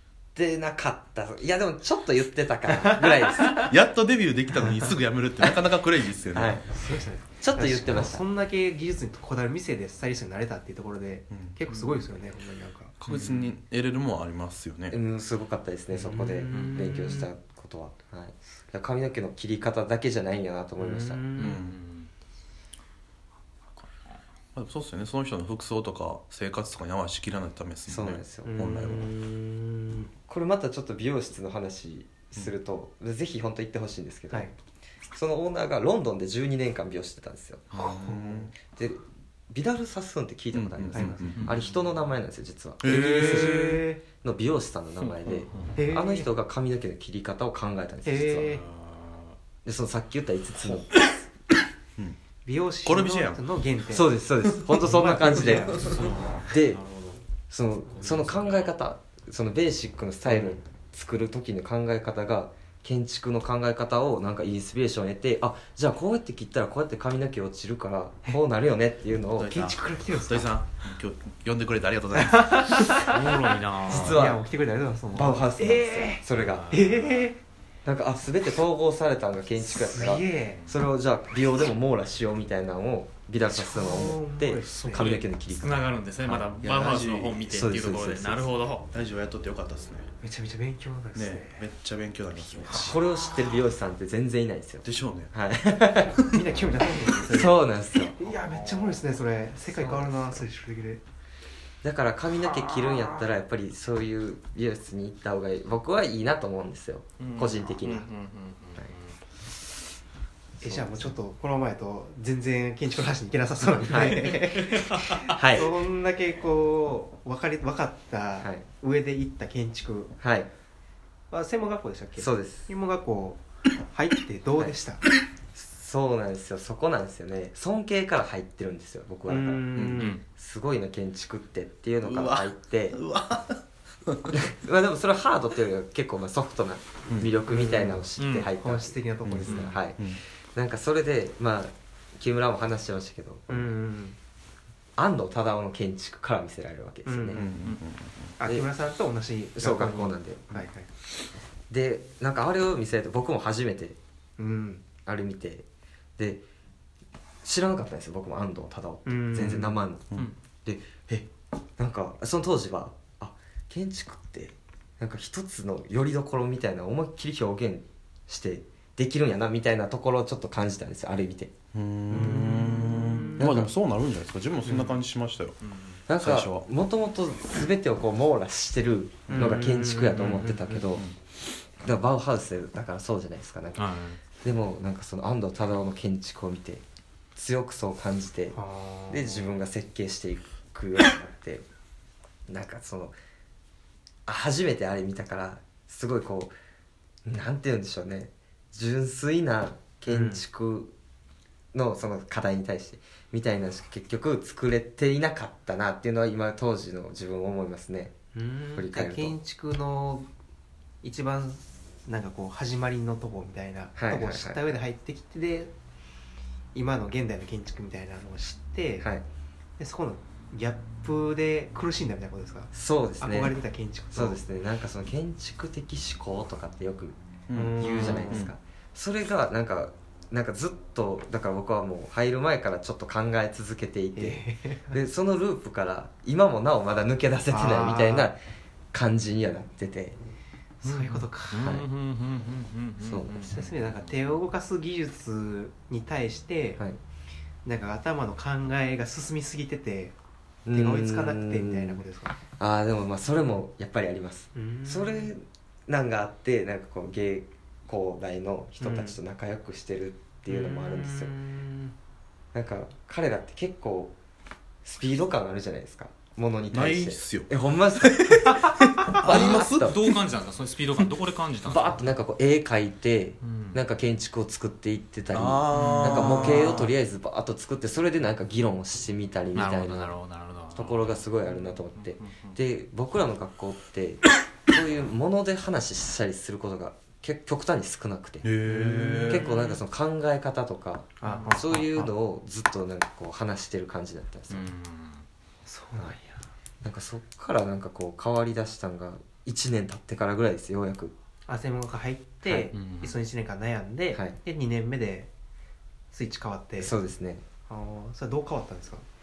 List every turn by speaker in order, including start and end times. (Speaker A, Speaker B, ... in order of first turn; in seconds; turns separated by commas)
Speaker A: 0.3-3.6, Speaker B: 2.8-3.7, Speaker C: 3.6-6.6, Speaker B: 4.6-5.5, Speaker A: 6.3-6.8, Speaker B: 6.7-12.9, Speaker A: 7.3-8.2, Speaker C: 11.3-11.6, Speaker D: 11.7-12.0, Speaker C: 13.0-14.9, Speaker D: 13.1-13.5, Speaker A: 14.9-21.3, Speaker B: 15.9-17.3, Speaker D: 16.5-17.2, Speaker B: 20.8-21.6, Speaker C: 21.4-21.8, Speaker D: 21.4-22.1, Speaker C: 24.5-29.1, Speaker A: 27.9-28.7, Speaker B: 28.4-30.1, Speaker A: 30.3-34.5, Speaker A: 35.1-37.7, Speaker B: 37.7-38.5, Speaker C: 37.7-38.5, Speaker A: 38.7-48.6, Speaker C: 40.5-41.5, Speaker B: 40.9-41.4, Speaker D: 41.3-41.7, Speaker C: 42.8-43.5, Speaker B: 42.9-44.0, Speaker D: 43.2-43.7, Speaker D: 45.0-45.8, Speaker B: 45.8-46.3, Speaker B: 48.0-48.6, Speaker D: 48.4-49.4, Speaker A: 49.6-50.9, Speaker B: 52.4-54.1, Speaker C: 52.8-53.4, Speaker A: 53.9-55.9, Speaker B: 54.9-55.8, Speaker D: 54.9-57.2, Speaker C: 55.6-56.0, Speaker A: 56.5-56.8, Speaker A: 57.5-69.6, Speaker D: 57.9-58.7, Speaker C: 69.4-73.0, Speaker B: 69.5-70.5, Speaker B: 72.2-73.2, Speaker D: 73.0-74.2, Speaker A: 73.9-74.4, Speaker C: 73.9-74.2, Speaker B: 73.9-77.4, Speaker A: 75.1-76.7, Speaker D: 76.3-77.3, Speaker A: 77.8-86.5, Speaker B: 79.7-80.6, Speaker B: 83.5-85.1, Speaker D: 84.7-88.9, Speaker C: 86.6-87.5, Speaker A: 87.5-88.5, Speaker C: 88.9-90.1, Speaker B: 90.2-91.6, Speaker C: 91.1-93.0, Speaker A: 92.7-96.3, Speaker C: 94.8-95.3, Speaker B: 96.3-97.6, Speaker A: 97.2-98.2, Speaker B: 98.1-101.0, Speaker D: 98.3-99.0, Speaker A: 99.7-100.4, Speaker A: 101.8-108.1, Speaker D: 107.2-109.2, Speaker A: 110.6-111.1, Speaker B: 110.6-120.2, Speaker D: 113.8-115.4, Speaker A: 113.9-114.3, Speaker A: 115.3-115.7, Speaker A: 118.4-118.7, Speaker A: 120.2-120.5, Speaker B: 121.3-125.0, Speaker A: 122.2-122.7, Speaker A: 125.5-129.7, Speaker B: 129.3-130.2, Speaker C: 129.7-130.1, Speaker D: 129.9-130.2, Speaker A: 130.3-133.0, Speaker C: 132.0-134.4, Speaker A: 134.3-143.7, Speaker B: 137.5-138.0, Speaker D: 138.2-138.5, Speaker B: 138.6-139.7, Speaker C: 139.2-140.2, Speaker D: 139.4-139.7, Speaker B: 143.5-144.2, Speaker A: 145.0-147.5, Speaker B: 147.0-147.4, Speaker C: 147.3-148.3, Speaker B: 148.4-150.9, Speaker A: 148.4-148.7, Speaker A: 149.6-150.7, Speaker A: 151.7-154.0, Speaker B: 154.4-154.8, Speaker A: 155.0-155.7, Speaker A: 156.2-156.4, Speaker A: 157.4-171.5, Speaker B: 159.0-159.8, Speaker C: 171.7-175.6, Speaker B: 172.1-173.4, Speaker A: 173.4-173.7, Speaker D: 175.6-176.0, Speaker A: 176.1-181.1, Speaker C: 176.2-176.7, Speaker C: 179.3-179.6, Speaker B: 179.3-180.8, Speaker C: 180.3-181.1, Speaker A: 181.8-183.8, Speaker D: 183.8-184.2, Speaker A: 184.4-186.8, Speaker A: 187.3-188.6, Speaker B: 188.5-189.5, Speaker A: 189.1-191.6, Speaker A: 192.5-193.2, Speaker A: 194.3-196.5, Speaker A: 197.2-200.9, Speaker B: 200.1-200.4, Speaker A: 201.7-208.1, Speaker B: 208.3-210.3, Speaker A: 208.8-209.3, Speaker B: 211.0-215.7, Speaker A: 213.9-214.8, Speaker B: 216.7-219.1, Speaker B: 219.8-224.4, Speaker A: 222.7-223.6, Speaker A: 224.1-227.2, Speaker C: 227.5-228.5, Speaker B: 227.5-228.5, Speaker A: 227.8-238.4, Speaker B: 234.1-234.9, Speaker B: 237.5-238.3, Speaker A: 238.9-240.2, Speaker B: 240.8-241.7, Speaker D: 240.8-243.9, Speaker A: 241.6-241.9, Speaker A: 243.0-243.4, Speaker B: 243.4-246.8, Speaker B: 247.6-250.1, Speaker A: 250.7-252.0, Speaker B: 250.7-252.3, Speaker A: 252.6-261.3, Speaker B: 254.5-255.3, Speaker B: 258.8-259.1, Speaker B: 260.5-261.9, Speaker A: 262.5-264.1, Speaker A: 264.8-270.0, Speaker C: 266.7-269.9, Speaker D: 269.2-272.0, Speaker A: 271.6-280.1, Speaker D: 273.4-273.8, Speaker C: 275.3-276.9, Speaker D: 275.7-276.9, Speaker D: 279.5-282.6, Speaker A: 280.7-288.5, Speaker C: 288.4-289.4, Speaker B: 288.7-289.8, Speaker A: 289.3-294.7, Speaker B: 291.2-292.1, Speaker D: 291.2-291.6, Speaker D: 294.5-295.2, Speaker B: 295.6-296.4, Speaker A: 296.8-301.1, Speaker B: 301.5-305.3, Speaker D: 302.7-303.1, Speaker B: 306.1-306.9, Speaker A: 306.8-307.4, Speaker B: 307.7-309.0